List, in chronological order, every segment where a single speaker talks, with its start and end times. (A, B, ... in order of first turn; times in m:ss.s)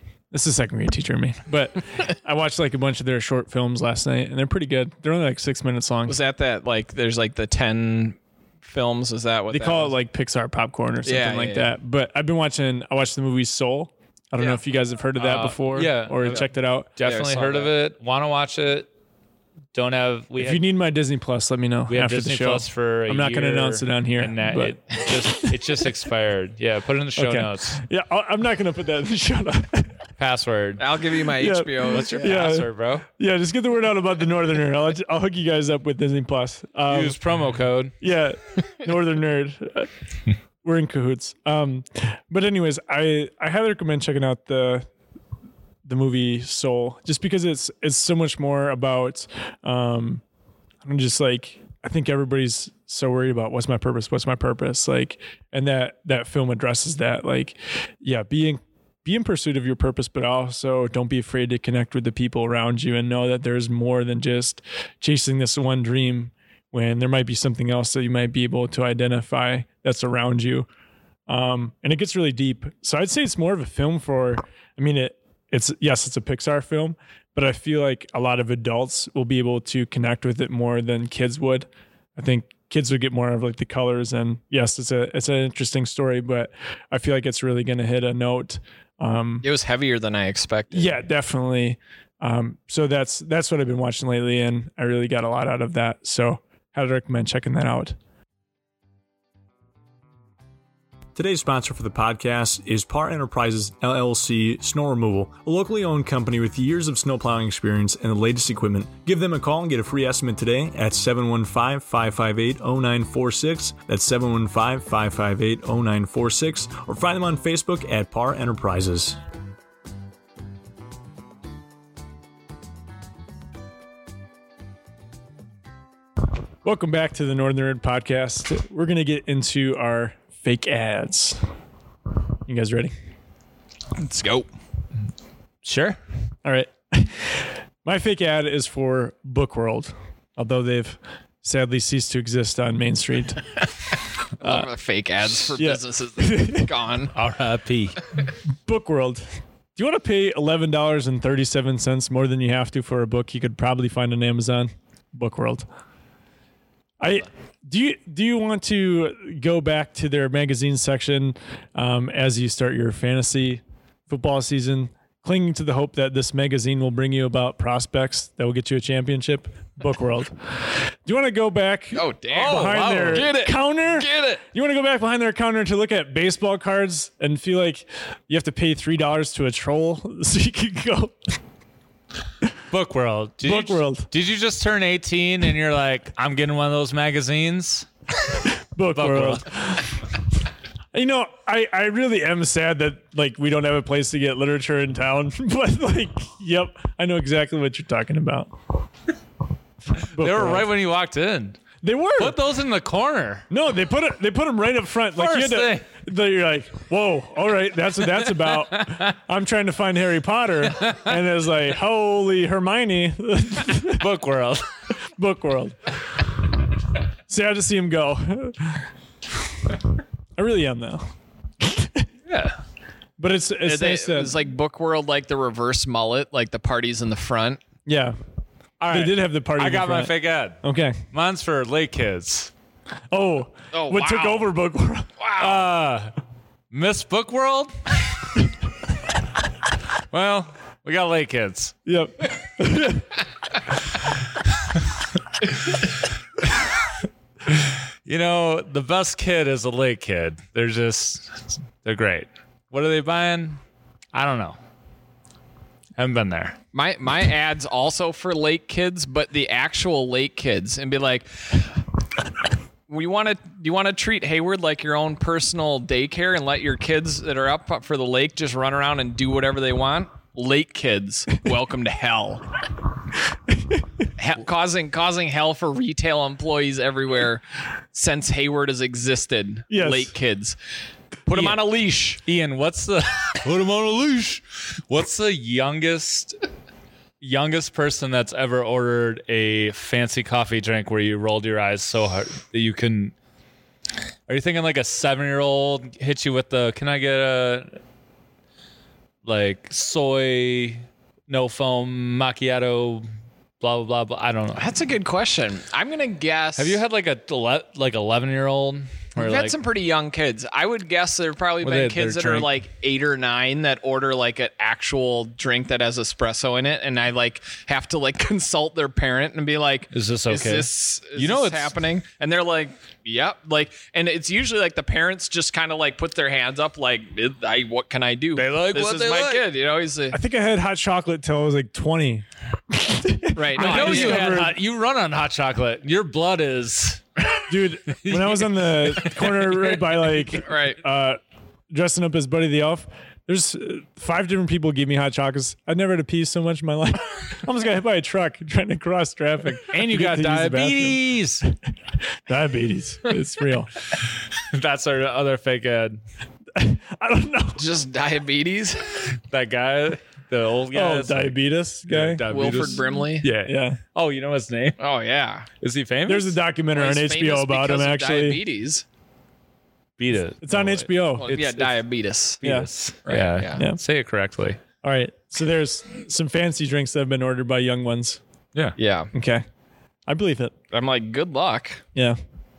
0:00.3-0:06.2 A
0:06.1-0:10.0 B
0:09.5-0:16.9 A
0:11.0-0:11.7 B
0:15.2-0:18.9 C
0:17.0-0:17.7 B
0:19.7-0:20.6 C
0:20.4-0:26.1 A
0:21.9-0:27.8 C
0:27.2-0:30.0 A
0:30.2-0:30.8 C
0:30.8-0:32.4 B
0:31.4-0:37.2 A
0:31.8-0:33.1 C
0:36.9-0:37.9 C
0:38.0-0:39.9 A
0:40.6-0:44.9 A
0:45.8-0:50.2 A
0:50.8-1:10.7 A
1:11.3-1:29.4 A
1:29.4-1:31.0 B
1:30.7-1:38.0 A
1:41.2-1:59.2 D
2:06.6-2:11.4 A
2:12.5-2:12.9 A
2:14.0-2:14.5 B
2:15.6-2:16.0 C
2:16.4-2:23.5 A
2:24.4-2:27.1 B
2:24.4-2:24.7 A
2:25.5-2:26.7 A
2:27.1-2:28.0 C
2:28.7-2:29.2 A
2:29.8-2:35.7 A
2:37.0-3:01.3 A
2:51.9-2:54.4 B
3:02.7-3:07.9 C
3:03.4-3:04.1 A
3:08.5-3:10.0 A
3:09.0-3:09.8 C
3:10.9-3:18.5 A
3:20.1-3:20.7 A
3:20.2-3:21.6 C
3:21.8-3:22.4 A
3:22.2-3:23.5 C
3:23.5-3:34.1 A
3:25.2-3:25.8 C
3:28.5-3:29.1 C
3:30.7-3:31.1 C
3:33.9-3:34.7 C
3:35.1-3:36.6 A
3:37.3-3:38.9 A
3:40.4-3:41.1 A
3:41.6-3:42.1 A
3:42.3-3:42.6 C
3:43.2-3:44.4 A
3:43.6-3:47.6 B
3:47.9-3:48.2 A
3:48.8-3:52.5 C
3:48.9-3:51.0 A
3:53.1-3:55.1 A
3:53.7-3:54.5 B
3:55.2-3:55.7 B
3:55.4-3:56.1 C
3:56.7-3:58.4 C
4:00.1-4:01.8 C
4:01.9-4:03.1 A
4:07.5-4:13.6 C
4:14.1-4:14.6 C
4:16.0-4:16.6 C
4:16.7-4:21.6 B
4:22.9-4:32.5 B
4:33.5-4:33.8 A
4:34.2-4:37.4 B
4:37.9-4:40.6 B
4:39.7-4:40.1 A
4:41.3-4:42.2 B
4:41.3-4:41.6 C
4:42.3-4:46.4 C
4:47.2-4:53.1 C
4:54.3-4:57.8 C
4:59.2-5:03.1 C
5:03.6-5:04.6 C
5:04.6-5:06.8 B
5:06.6-5:09.5 C
5:09.2-5:30.2 B
5:11.6-5:12.5 C
5:19.9-5:21.7 C
5:28.4-5:29.5 C
5:30.1-5:34.6 A
5:33.3-5:34.5 B
5:33.6-5:40.4 C
5:37.5-5:41.2 A
5:40.4-5:40.8 B
5:41.7-5:51.5 A
5:49.7-5:51.4 C
5:52.1-5:53.7 A
5:54.0-5:56.0 C
5:56.6-5:57.6 A
5:57.6-5:59.1 B
5:59.2-6:04.8 C
6:00.7-6:02.2 A
6:02.3-6:03.3 B
6:03.4-6:03.8 A
6:04.8-6:05.5 B
6:05.6-6:06.4 C
6:06.1-6:08.4 A
6:06.7-6:08.8 B
6:10.0-6:11.8 C
6:10.4-6:11.3 A
6:11.2-6:13.6 B
6:12.4-6:14.6 C
6:12.4-6:12.7 A
6:14.8-6:18.2 A
6:18.8-6:19.1 B
6:19.1-6:19.4 A
6:20.1-6:20.5 A
6:20.7-6:21.8 B